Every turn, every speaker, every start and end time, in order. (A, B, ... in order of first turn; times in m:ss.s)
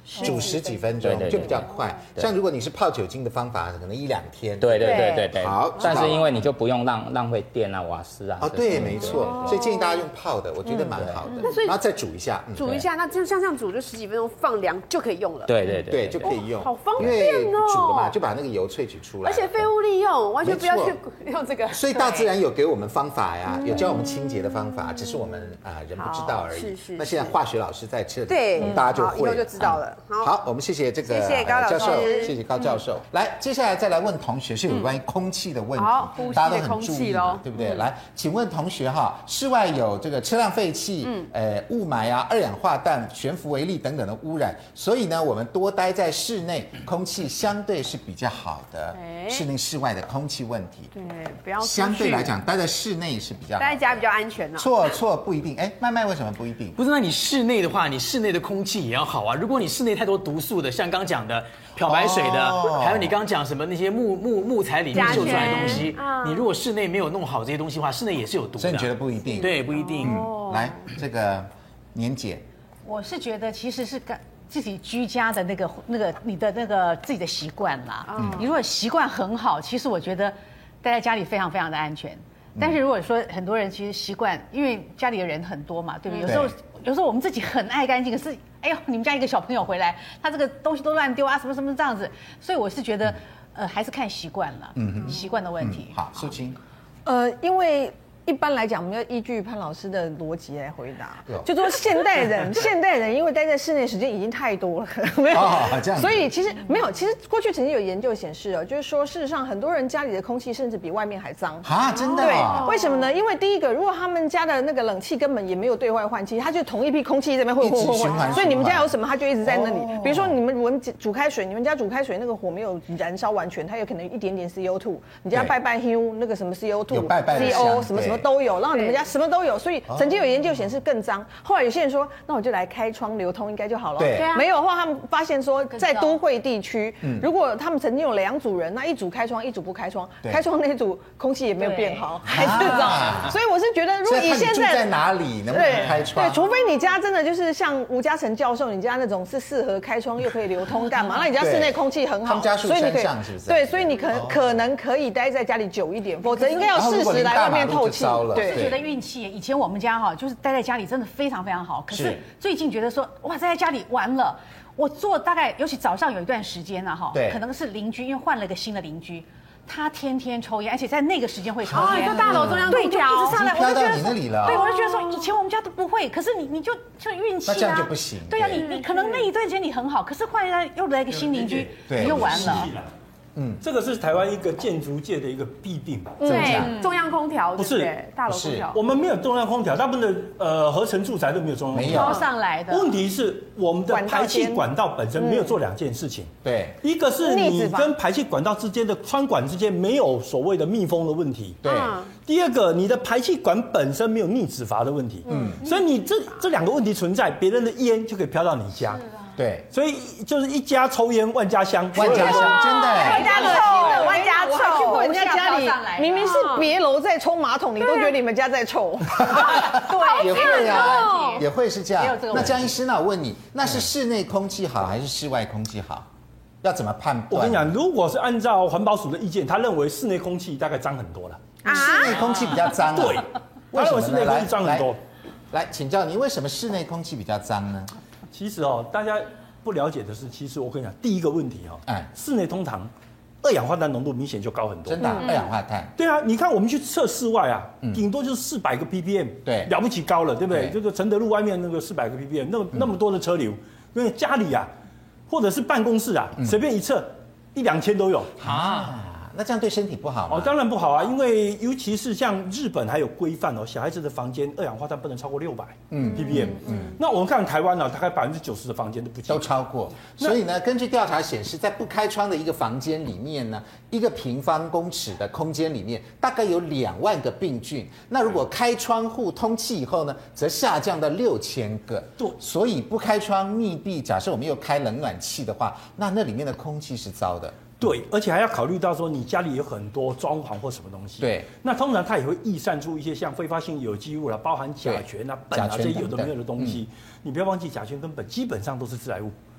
0:00.2-0:00.6 A
0:00.2-0:06.2 B
0:01.0-0:02.3 C
0:04.6-0:09.6 C
0:04.8-0:06.2 A
0:08.4-0:12.6 B
0:09.0-0:10.0 A
0:10.8-0:11.8 A
0:10.9-0:11.3 C
0:12.6-0:18.1 A
0:15.5-0:16.4 C
0:15.9-0:19.7 B
0:19.2-0:22.3 A
0:20.4-0:21.0 B
0:21.7-0:50.9 B
0:23.5-0:25.2 A
0:26.0-0:27.3 A
0:28.3-0:30.3 A
0:31.0-0:32.8 A
0:35.8-0:37.8 A
0:48.9-0:49.5 A
0:50.9-0:52.3 A
0:51.6-0:53.8 B
0:53.6-0:54.7 A
0:54.6-0:56.8 B
0:56.8-1:10.3 D
1:01.8-1:03.2 B
1:04.9-1:06.5 A
1:05.0-1:05.5 B
1:08.6-1:12.4 B
1:09.4-1:10.8 A
1:12.8-1:36.0 E
1:18.1-1:18.5 A
1:18.2-1:18.5 B
1:26.1-1:26.4 A
1:26.2-1:26.5 B
1:34.8-1:36.6 B
1:37.0-2:24.9 F
1:45.3-1:46.3 B
1:51.6-1:52.7 B
1:51.9-1:53.1 A
1:57.6-2:00.4 B
2:05.3-2:05.6 B
2:06.9-2:08.3 B
2:07.3-2:07.8 A
2:08.7-2:09.0 A
2:09.9-2:10.2 B
2:14.0-2:14.3 B
2:14.1-2:14.5 A
2:15.7-2:16.2 E
2:17.0-2:17.3 B
2:21.6-2:23.0 E
2:22.3-2:23.4 B
2:24.0-2:26.4 B
2:25.5-2:38.7 F
2:31.4-2:34.7 B
2:36.3-2:36.7 E
2:36.7-2:38.8 B
2:38.3-3:02.7 E
2:41.9-2:42.2 B
2:47.1-2:47.4 B
2:51.6-2:54.6 B
2:51.7-2:53.9 A
2:54.4-2:55.3 A
2:57.5-2:58.6 B
2:58.5-2:59.3 A
3:01.1-3:02.9 G
3:01.9-3:02.7 B
3:03.4-3:03.6 B
3:03.6-3:06.7 G
3:06.2-3:08.8 A
3:06.2-3:06.7 B
3:06.4-3:06.9 E
3:07.6-3:08.0 G
3:08.3-3:08.7 B
3:08.7-3:21.6 G
3:11.7-3:12.2 B
3:11.9-3:13.0 E
3:13.9-3:14.7 F
3:15.2-3:15.6 F
3:16.4-3:16.8 B
3:17.2-3:18.0 F
3:21.6-3:22.0 B
3:21.6-3:22.1 A
3:22.2-3:29.0 G
3:25.3-3:25.6 B
3:29.4-3:29.7 B
3:29.7-3:32.7 G
3:31.9-3:33.4 B
3:32.2-3:35.1 A
3:32.3-3:36.7 E
3:32.6-3:39.7 F
3:36.2-3:36.7 A
3:37.8-3:38.1 A
3:39.2-3:46.1 B
3:39.5-3:41.5 E
3:39.6-3:41.4 A
3:42.0-3:42.8 E
3:46.6-3:47.8 B
3:47.3-3:51.6 G
3:51.6-3:52.2 A
3:51.6-3:54.9 B
3:52.8-3:55.0 G
3:55.5-3:57.9 B
3:58.3-4:05.2 G
4:04.9-4:05.9 B
4:05.1-4:05.4 A
4:06.0-4:14.7 G
4:09.4-4:09.7 B
4:10.5-4:10.8 B
4:15.3-4:18.7 G
4:18.4-4:20.6 B
4:20.3-4:29.5 G
4:25.9-4:27.0 B
4:26.1-4:27.0 A
4:29.3-4:47.9 B
4:30.0-4:30.4 G
4:47.8-4:59.4 G
4:51.2-4:51.5 B
4:54.8-4:56.8 B